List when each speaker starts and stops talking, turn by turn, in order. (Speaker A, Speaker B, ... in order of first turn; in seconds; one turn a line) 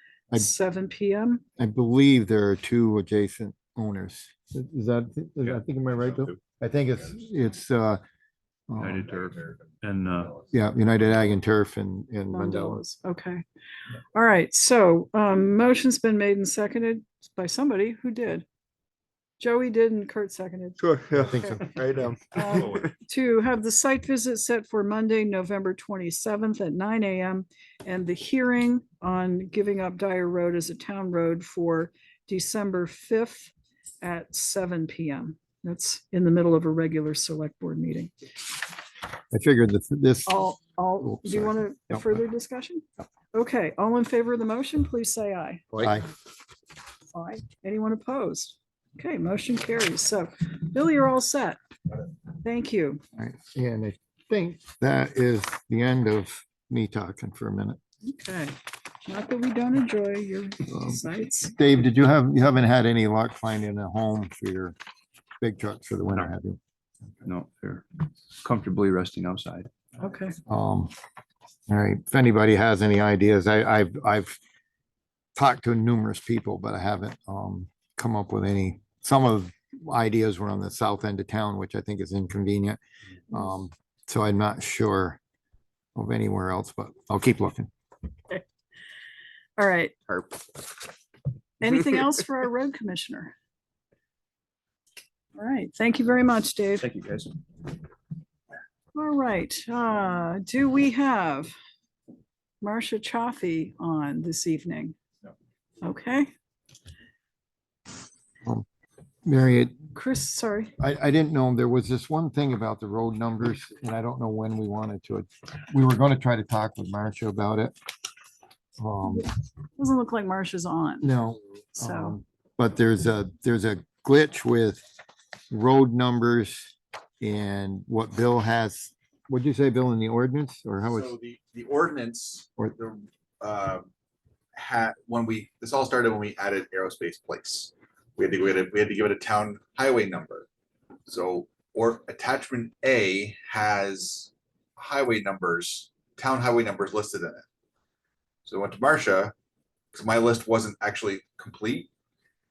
Speaker A: 0.3-1.4
Speaker B: 1.6-8.0
Speaker B: 8.7-9.0
Speaker C: 8.8-10.4
Speaker D: 9.1-9.6
Speaker B: 10.5-12.8
Speaker A: 12.3-13.4
Speaker A: 14.1-18.4
Speaker A: 19.4-21.6
Speaker E: 20.8-22.9
Speaker B: 21.1-21.8
Speaker A: 22.3-38.1
Speaker C: 22.5-22.8
Speaker B: 39.3-40.3
Speaker A: 40.3-45.8
Speaker B: 41.0-42.1
Speaker B: 45.8-46.1
Speaker A: 47.1-51.6
Speaker A: 52.4-53.0
Speaker B: 53.2-57.8
Speaker A: 58.0-58.5
Speaker A: 59.1-61.6
Speaker B: 60.7-64.8
Speaker B: 65.4-66.6
Speaker C: 67.2-69.7
Speaker A: 70.0-70.4
Speaker B: 70.5-70.9
Speaker B: 71.7-74.4
Speaker B: 75.3-82.8
Speaker B: 83.3-85.2
Speaker B: 86.0-87.7
Speaker A: 89.6-90.2
Speaker A: 91.6-93.3
Speaker A: 95.4-96.9
Speaker C: 96.8-97.4
Speaker A: 98.9-101.5
Speaker A: 102.6-105.0
Speaker A: 105.8-106.3
Speaker B: 109.2-109.9
Speaker A: 109.9-110.7
Speaker B: 110.8-117.7
Speaker B: 118.8-119.3
Speaker A: 119.1-121.1
Speaker B: 121.0-124.8
Speaker A: 121.8-122.2
Speaker B: 125.5-131.1
Speaker D: 130.9-133.9
Speaker D: 134.6-140.5
Speaker D: 141.1-147.4
Speaker D: 148.5-149.3
Speaker D: 149.9-151.9